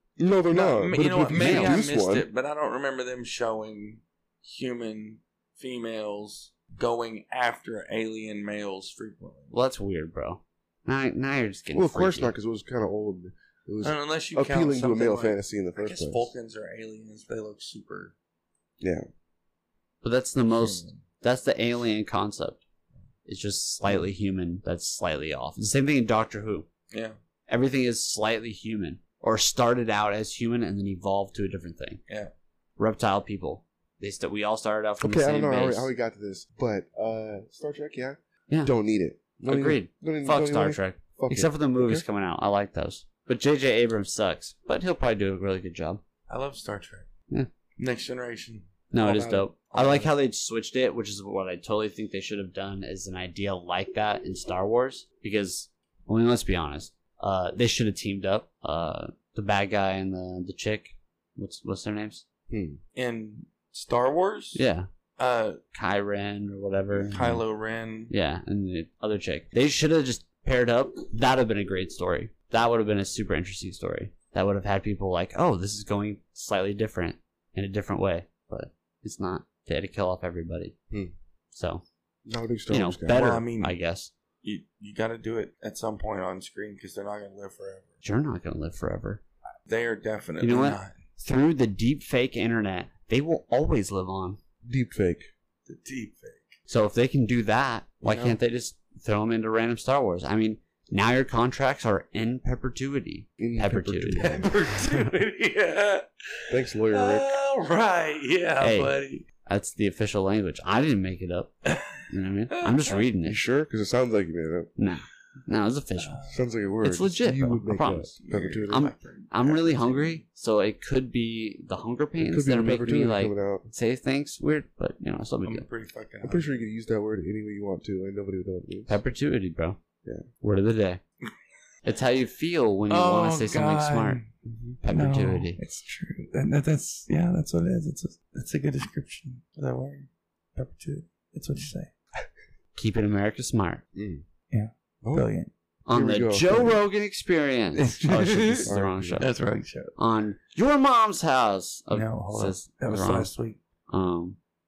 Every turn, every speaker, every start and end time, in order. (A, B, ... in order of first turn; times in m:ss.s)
0:00.2-0:02.3 A
0:00.5-0:09.5 B
0:01.3-0:01.8 C
0:09.5-0:12.3 C
0:11.7-0:16.3 A
0:13.8-0:18.1 B
0:18.8-0:19.1 A
0:20.0-0:22.6 C
0:20.5-0:21.0 B
0:23.2-0:26.7 C
0:26.9-0:27.2 B
0:27.5-0:32.0 C
0:32.8-0:35.9 C
0:35.0-0:42.1 A
0:39.4-0:46.0 C
0:46.3-0:47.1 B
0:47.8-0:50.1 B
0:48.9-1:02.2 C
1:02.5-1:02.8 A
1:02.9-1:04.6 B
1:04.6-1:04.9 C
1:05.2-1:05.6 B
1:05.7-1:07.4 C
1:07.0-1:08.1 B
1:08.1-1:20.7 C
1:21.5-1:21.8 C
1:22.2-1:23.4 A
1:22.7-1:24.1 C
1:23.1-1:23.8 B
1:24.4-1:28.0 B
1:28.0-1:29.2 C
1:29.7-1:31.0 B
1:30.4-1:34.4 C
1:34.6-1:35.3 A
1:35.6-1:36.6 B
1:36.7-1:44.4 C
1:38.0-1:38.4 A
1:43.4-1:44.5 A
1:44.2-1:49.2 B
1:46.5-1:47.3 A
1:48.6-1:53.4 C
1:51.6-1:52.0 B
1:52.6-1:53.0 B
1:53.2-1:54.7 A
1:54.8-1:56.2 C
1:56.0-1:56.5 B
1:56.3-1:58.8 A
1:56.8-1:58.2 C
1:58.2-2:00.2 B
1:58.7-2:05.6 C
2:02.2-2:03.7 A
2:05.4-2:06.5 B
2:06.2-2:09.0 A
2:08.9-2:09.8 C
2:10.4-2:11.0 C
2:11.8-2:14.2 C
2:12.9-2:14.3 B
2:14.4-2:14.8 A
2:14.8-2:15.6 C
2:14.9-2:21.9 B
2:22.8-2:23.8 C
2:23.9-2:24.3 A
2:24.5-2:25.5 B
2:25.0-2:25.3 A
2:25.8-2:29.3 C
2:25.9-2:26.8 A
2:27.8-2:29.9 B
2:28.7-2:29.3 A
2:30.0-2:33.3 C
2:31.9-2:33.6 B
2:33.9-2:34.4 C